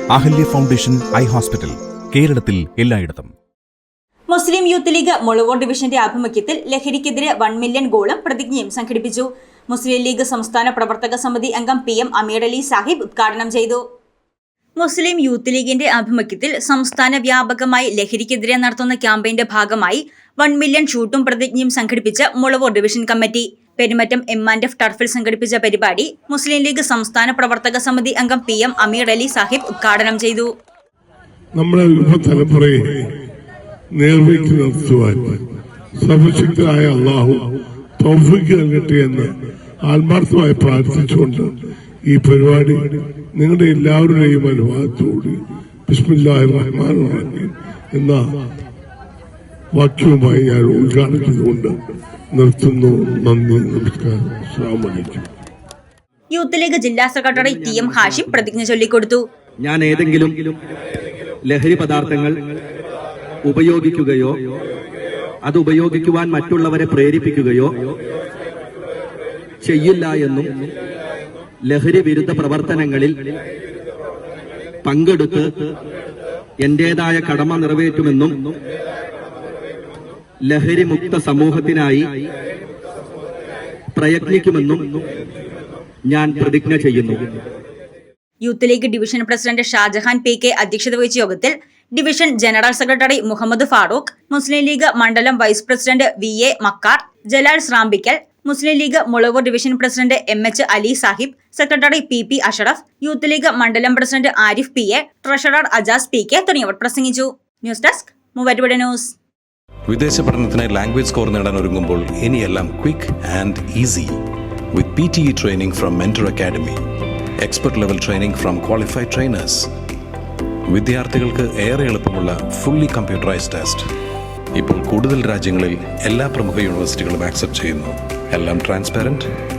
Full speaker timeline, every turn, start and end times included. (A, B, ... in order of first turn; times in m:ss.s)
0:00.1-0:03.3 A
0:04.3-0:13.8 B
0:14.8-0:30.5 B
0:31.6-0:32.9 C
0:34.0-0:35.4 C
0:36.0-0:37.4 C
0:38.0-0:39.3 C
0:39.8-0:41.5 C
0:42.1-0:48.2 C
0:49.7-0:51.8 C
0:52.3-0:55.3 C
0:56.3-0:59.2 B
0:57.3-0:58.3 D
0:59.6-1:00.6 D
1:01.5-1:02.5 D
1:03.4-1:04.4 D
1:05.4-1:07.9 D
1:09.6-1:10.7 D
1:11.7-1:13.3 D
1:14.8-1:15.7 D
1:16.6-1:18.5 D
1:20.5-1:22.1 D
1:24.0-1:25.0 D
1:26.1-1:27.2 D
1:28.4-1:49.2 B
1:49.9-1:54.2 E
1:54.7-1:56.8 E
1:57.4-1:59.7 E
2:00.7-2:03.9 E
2:04.5-2:09.3 E